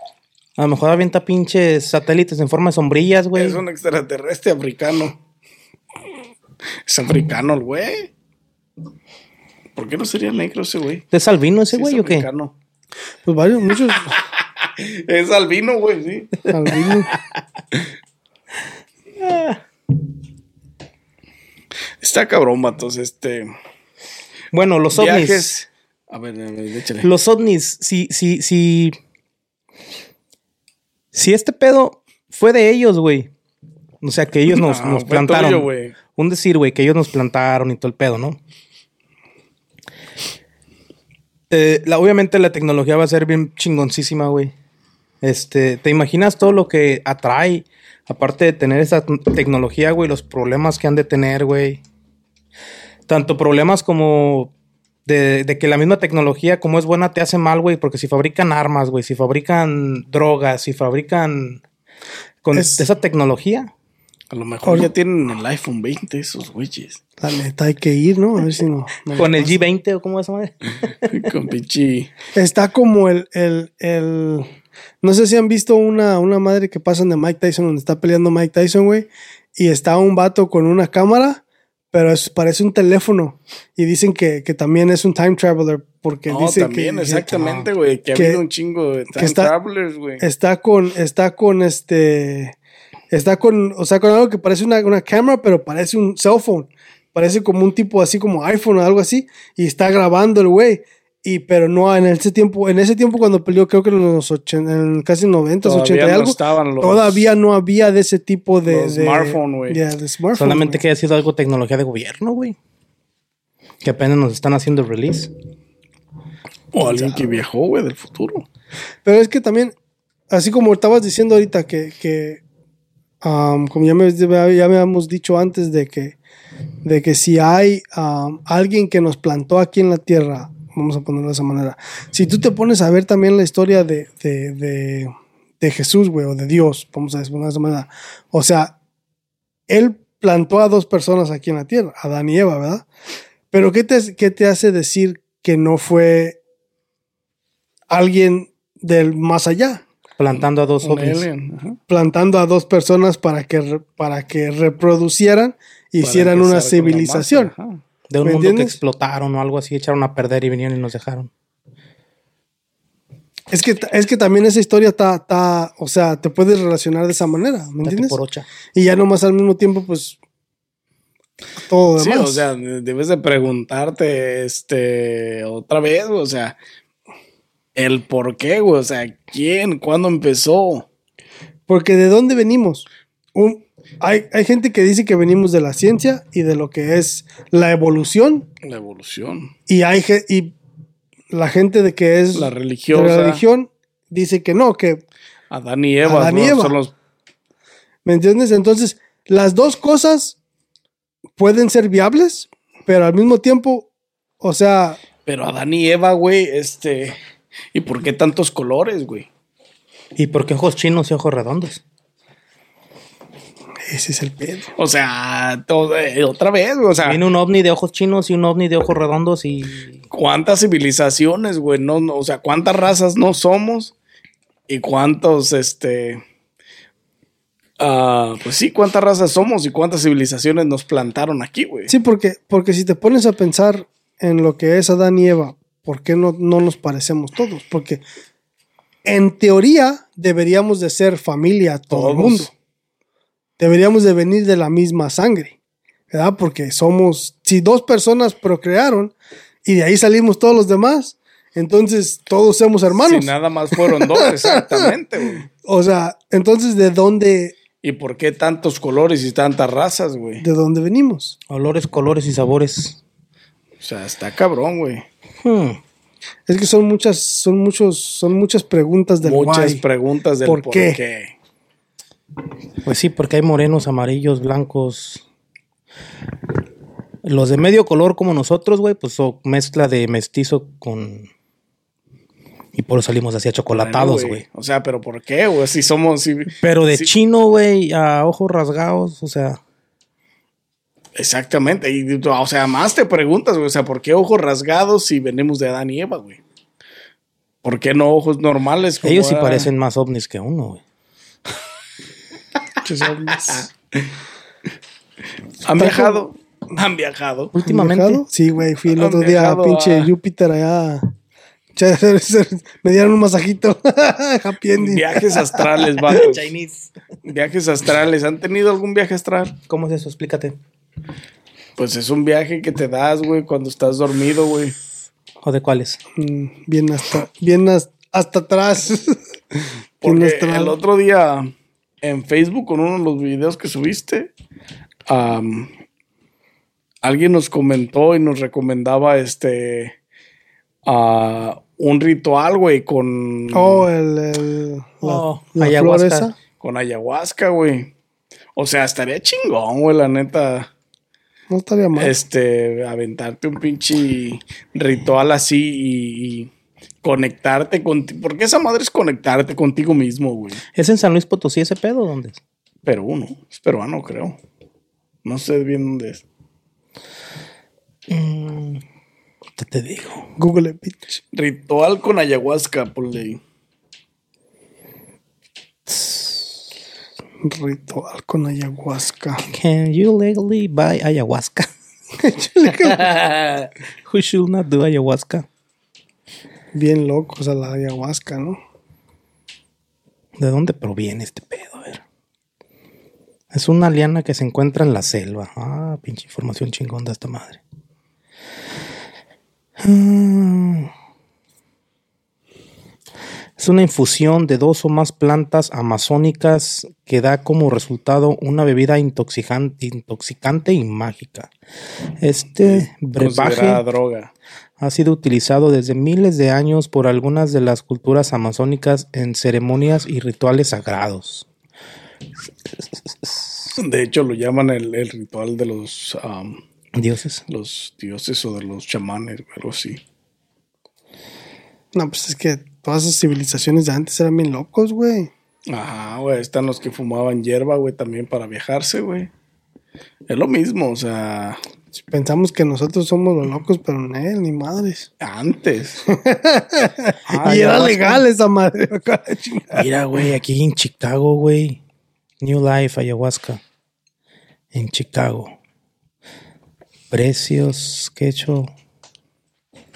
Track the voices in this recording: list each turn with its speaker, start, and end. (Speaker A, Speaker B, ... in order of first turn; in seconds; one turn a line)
Speaker A: 0.6-3.6
Speaker B: 3.3-5.2
Speaker B: 6.8-8.1
Speaker B: 9.8-11.1
Speaker A: 11.1-12.3
Speaker B: 11.7-12.5
Speaker C: 13.2-14.2
Speaker B: 14.1-16.4
Speaker C: 16.5-17.1
Speaker A: 19.2-19.6
Speaker B: 22.0-23.5
Speaker A: 24.5-25.5
Speaker B: 24.9-27.1
Speaker A: 27.0-28.9
Speaker A: 31.1-33.3
Speaker A: 34.0-38.4
Speaker B: 34.5-36.0
Speaker A: 41.5-44.5
Speaker A: 45.2-51.8
Speaker A: 53.1-54.5
Speaker A: 55.0-61.6
Speaker A: 62.4-63.7
Speaker B: 64.3-67.0
Speaker C: 67.2-69.6
Speaker A: 69.1-71.3
Speaker B: 71.0-72.1
Speaker C: 72.3-74.5
Speaker C: 75.0-87.4
Speaker B: 86.3-90.2
Speaker A: 87.3-87.7
Speaker C: 88.1-88.4
Speaker C: 89.2-89.5
Speaker C: 90.2-92.5
Speaker C: 93.1-110.8
Speaker B: 105.6-107.3
Speaker B: 108.6-109.8
Speaker A: 110.3-112.6
Speaker A: 113.8-115.3
Speaker B: 116.7-118.5
Speaker C: 116.8-117.4
Speaker C: 119.0-119.7
Speaker C: 120.3-122.4
Speaker C: 123.2-126.2
Speaker C: 126.8-138.7
Speaker C: 139.7-142.9
Speaker C: 143.5-146.4
Speaker C: 147.9-149.8
Speaker A: 150.2-151.2
Speaker B: 150.8-151.8
Speaker C: 151.9-157.5
Speaker B: 156.0-157.8
Speaker A: 158.1-161.3
Speaker C: 158.2-158.8
Speaker C: 163.5-168.2
Speaker A: 167.8-168.5
Speaker C: 168.7-170.2
Speaker C: 171.7-172.5
Speaker B: 172.0-176.6
Speaker B: 177.8-180.8
Speaker C: 181.7-188.5
Speaker B: 188.6-189.5
Speaker C: 189.7-190.5
Speaker C: 191.3-195.0
Speaker B: 192.3-193.4
Speaker B: 195.5-196.9
Speaker C: 196.0-196.8
Speaker C: 198.0-200.4
Speaker C: 201.4-203.9
Speaker C: 204.4-205.0
Speaker B: 205.2-207.2
Speaker B: 207.7-209.3
Speaker A: 210.2-211.8
Speaker C: 213.8-214.7
Speaker B: 214.8-217.2
Speaker A: 217.0-220.0
Speaker B: 220.1-223.9
Speaker B: 224.7-226.2
Speaker B: 227.8-231.9
Speaker C: 231.9-238.0
Speaker C: 239.0-242.5
Speaker B: 241.9-242.5
Speaker C: 243.6-245.6
Speaker C: 246.1-249.1
Speaker C: 249.6-254.7
Speaker B: 252.9-255.5
Speaker C: 255.6-257.5
Speaker B: 257.8-260.4
Speaker C: 260.4-261.4
Speaker A: 261.5-263.0
Speaker B: 263.8-265.0
Speaker A: 265.4-265.8
Speaker C: 266.5-269.8
Speaker B: 269.2-271.3
Speaker C: 270.4-271.0
Speaker A: 272.8-275.2
Speaker A: 277.2-281.3
Speaker A: 282.7-284.4
Speaker B: 283.7-287.1
Speaker A: 286.6-289.6
Speaker B: 291.1-296.4
Speaker B: 297.6-299.7
Speaker A: 299.0-300.8
Speaker C: 302.8-303.7
Speaker B: 303.4-304.1
Speaker B: 305.6-307.6
Speaker C: 305.8-306.2
Speaker C: 307.6-311.1
Speaker A: 307.6-308.2
Speaker B: 308.9-310.1
Speaker C: 311.7-316.2
Speaker B: 314.8-316.4
Speaker A: 316.1-316.9
Speaker B: 317.2-319.6
Speaker A: 319.7-320.6
Speaker B: 321.8-324.7
Speaker A: 325.4-326.0
Speaker C: 326.2-330.8
Speaker B: 330.0-334.3
Speaker B: 335.1-335.7
Speaker B: 337.0-339.9
Speaker B: 340.8-343.9
Speaker C: 343.5-346.3
Speaker A: 345.0-346.3
Speaker B: 346.6-347.9
Speaker B: 348.6-350.7
Speaker C: 351.5-352.1
Speaker B: 351.9-356.5
Speaker B: 357.0-360.6
Speaker A: 360.7-362.4
Speaker B: 362.8-364.4
Speaker B: 365.2-366.2
Speaker A: 368.1-368.8
Speaker A: 369.6-370.3
Speaker C: 370.4-371.2
Speaker B: 371.3-373.4
Speaker A: 375.9-376.6
Speaker C: 377.4-379.4
Speaker A: 379.5-381.7
Speaker C: 382.2-383.1
Speaker A: 382.7-383.2
Speaker A: 384.1-385.4
Speaker C: 386.7-388.6
Speaker A: 390.4-392.0
Speaker A: 393.5-397.6
Speaker A: 399.8-400.9
Speaker A: 403.6-411.5
Speaker A: 412.2-413.8
Speaker B: 412.6-414.3
Speaker A: 414.8-421.4
Speaker A: 423.0-423.7
Speaker B: 423.8-426.6
Speaker A: 426.9-427.4
Speaker B: 427.5-430.0
Speaker C: 431.9-435.3
Speaker B: 435.7-439.3
Speaker B: 440.3-441.6
Speaker C: 442.0-445.1
Speaker B: 445.2-446.0
Speaker C: 446.1-449.8
Speaker B: 447.3-448.2
Speaker B: 449.7-450.3
Speaker A: 450.1-451.8
Speaker A: 452.4-453.6
Speaker A: 454.7-455.5
Speaker A: 457.1-458.7